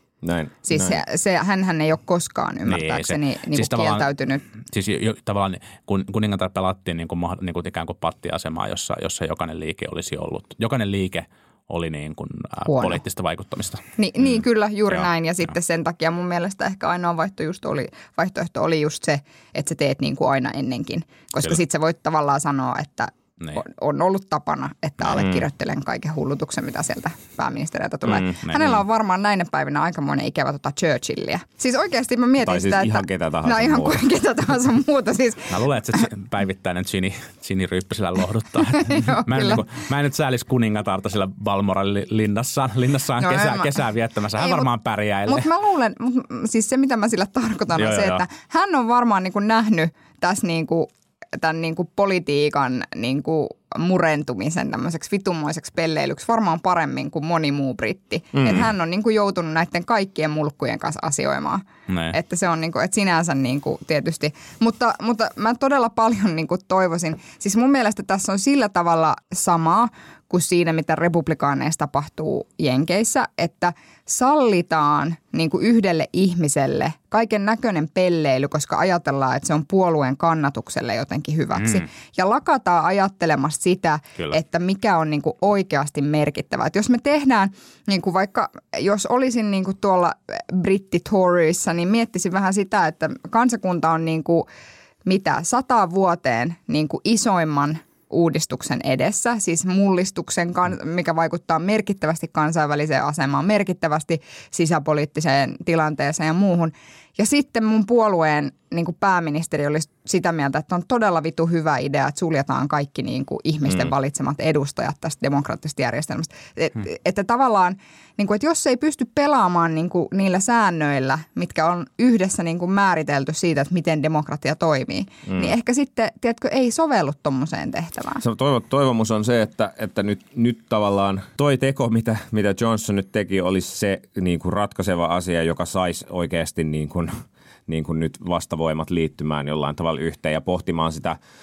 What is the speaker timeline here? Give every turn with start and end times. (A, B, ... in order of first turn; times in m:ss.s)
0:00.2-0:01.0 A
0:00.7-0:04.4 B
0:02.7-0:13.8 C
0:12.7-0:13.0 B
0:14.0-0:35.6 B
0:25.1-0:25.4 A
0:28.1-0:28.3 A
0:28.5-0:28.7 C
0:32.4-0:34.0 A
0:35.5-0:45.5 C
0:38.8-0:39.7 B
0:43.2-0:43.8 B
0:44.4-0:44.7 B
0:45.3-1:34.5 B
0:47.8-0:48.2 C
0:58.4-0:58.7 A
1:01.9-1:02.2 C
1:21.6-1:21.8 C
1:35.1-2:08.2 B
2:05.3-2:05.5 A
2:08.2-2:21.2 A